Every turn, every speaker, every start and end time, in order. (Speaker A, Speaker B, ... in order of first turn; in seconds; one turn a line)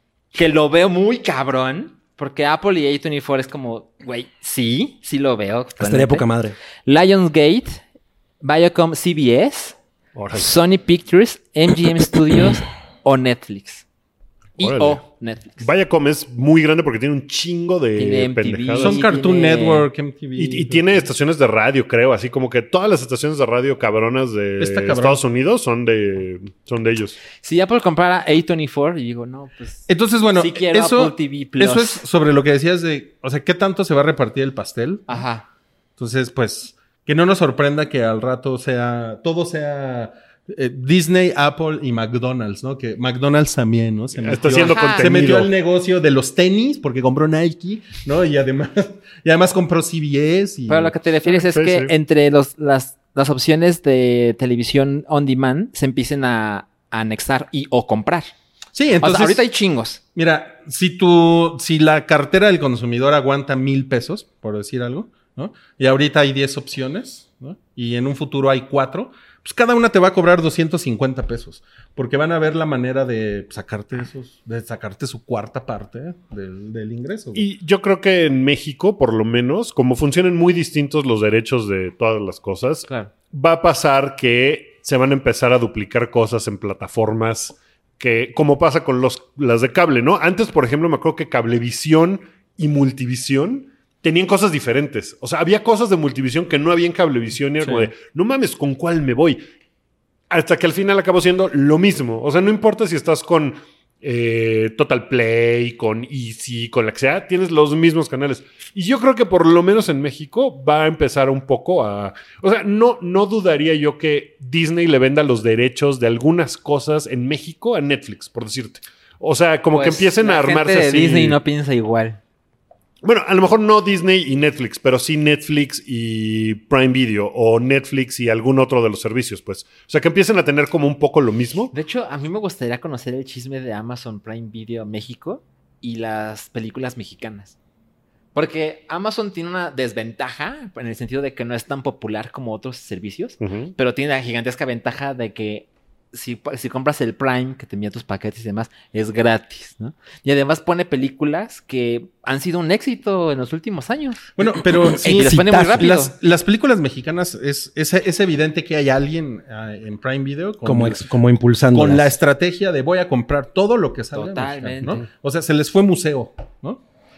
Speaker A: 0.3-6.3
Speaker B: 5.8-6.5
Speaker A: 6.8-7.8
Speaker A: 8.4-9.8
Speaker C: 10.1-10.5
Speaker A: 10.3-13.8
Speaker C: 14.6-15.0
Speaker A: 14.6-15.7
Speaker C: 15.6-19.0
Speaker A: 18.0-19.9
Speaker D: 18.8-21.1
Speaker C: 20.4-27.2
Speaker D: 24.6-25.2
Speaker A: 27.4-32.0
Speaker D: 29.9-35.2
Speaker A: 35.1-35.5
Speaker D: 36.0-50.9
Speaker C: 44.1-45.5
Speaker A: 44.5-45.1
Speaker A: 50.7-58.3
Speaker C: 51.3-51.9
Speaker D: 58.7-59.4
Speaker A: 59.0-60.0
Speaker D: 60.1-77.5
Speaker C: 77.3-99.4
Speaker C: 100.3-121.4
Speaker A: 119.7-122.2
Speaker C: 123.0-131.7
Speaker A: 131.7-137.6
Speaker A: 138.3-154.3
Speaker C: 143.4-143.7
Speaker D: 154.3-161.1
Speaker B: 155.0-155.9
Speaker A: 155.0-156.1
Speaker B: 160.6-162.1
Speaker D: 161.7-166.8
Speaker A: 164.1-165.0